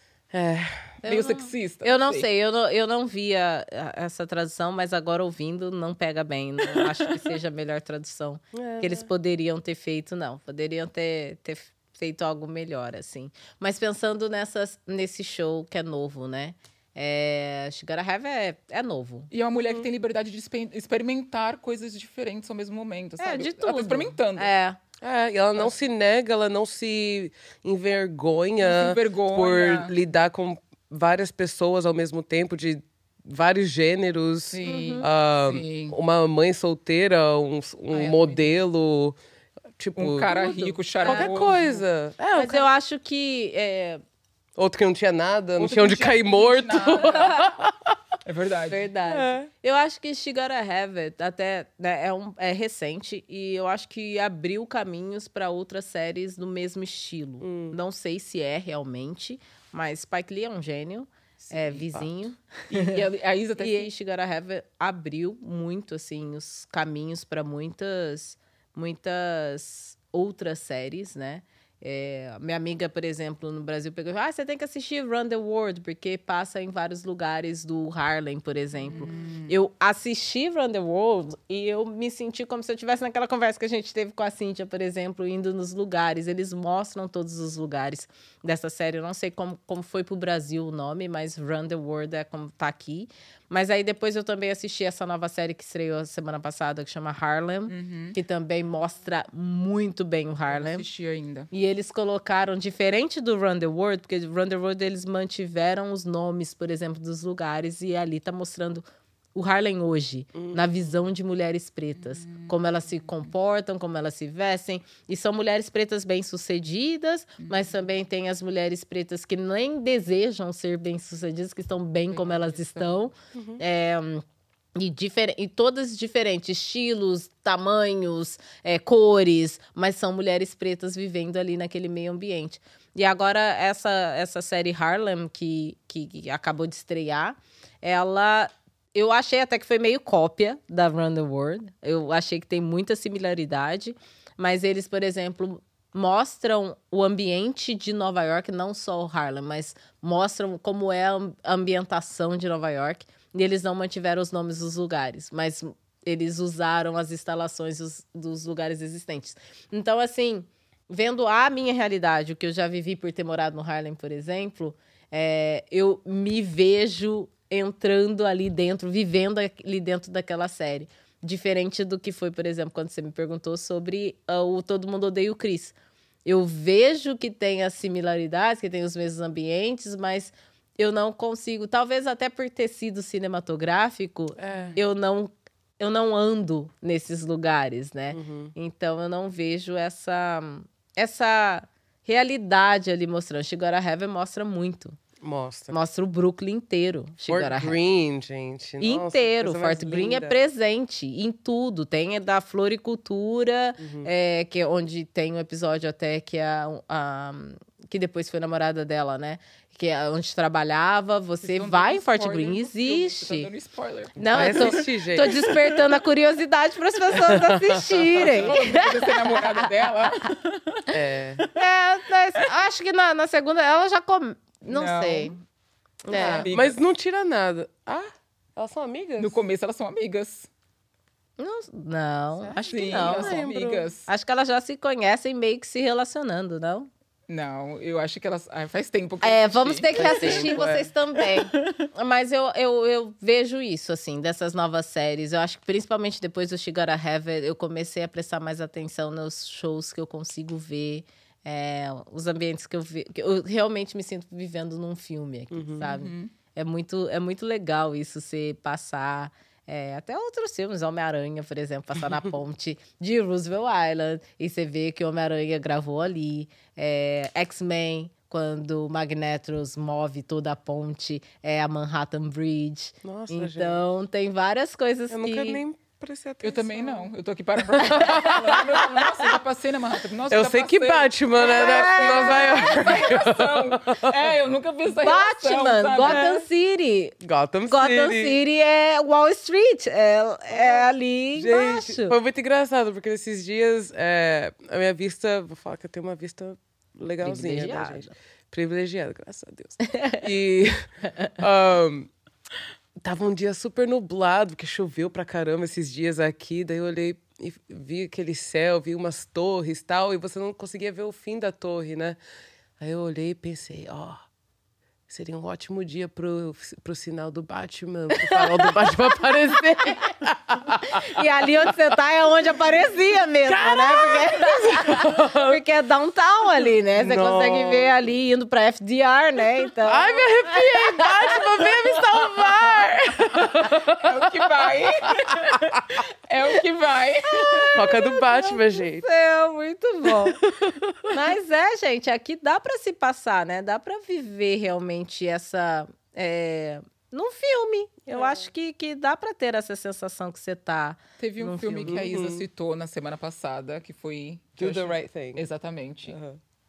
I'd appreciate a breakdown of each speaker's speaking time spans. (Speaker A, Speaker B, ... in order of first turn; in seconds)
Speaker A: 0.3-1.0, 8.5-9.1, 25.0-39.2, 39.8-40.3, 41.0-42.6, 44.6-47.9, 49.1-49.5, 57.4-57.8, 110.3-110.7, 123.3-123.6, 184.4-184.8, 188.1-188.5, 195.2-195.8, 197.3-200.4, 203.8-204.1, 214.2-215.5, 217.1-218.5, 220.9-221.4, 226.1-229.4, 232.4-233.9, 239.9-240.9, 255.5-255.9, 273.0-273.8, 275.1-277.1, 277.7-278.8, 280.3-284.3, 286.0-286.4, 287.2-288.4, 290.5-302.1, 303.0-312.2, 312.8-314.2, 315.1-321.2, 323.4-325.6, 326.9-328.1, 329.8-336.0, 337.7-339.1, 340.1-341.1, 348.1-348.5, 351.8-352.4, 354.6-355.4, 356.1-356.4
Speaker B: 1.0-19.3, 23.2-24.8, 34.6-35.1, 40.3-41.4, 42.3-44.0, 47.0-47.5, 48.7-63.0, 63.6-100.8, 101.5-108.8, 109.3-124.2, 124.8-175.7, 176.2-195.0, 195.7-197.8, 198.8-213.5, 214.2-219.7, 221.5-225.4, 226.0-226.5, 231.4-233.4, 234.1-236.9, 239.2-275.6, 277.9-279.3, 281.4-283.1, 284.9-287.1, 287.7-292.1, 297.2-298.1, 299.8-300.2, 318.1-320.0, 320.8-332.7, 337.3-340.4, 341.1-352.1
Speaker C: 1.1-2.3, 19.3-24.5, 28.6-29.9, 34.5-35.9, 37.9-38.5, 40.0-41.8, 45.6-47.5, 48.2-48.9, 61.4-62.1, 62.7-63.9, 78.9-79.5, 97.7-98.2, 100.5-101.5, 112.0-113.3, 117.4-117.7, 122.1-123.1, 211.4-215.8, 218.2-221.6, 224.7-225.3, 226.2-226.8, 229.2-230.5, 232.6-234.1, 237.3-240.6, 241.2-241.9, 255.8-256.3, 276.4-286.3, 333.4-337.8, 351.2-356.1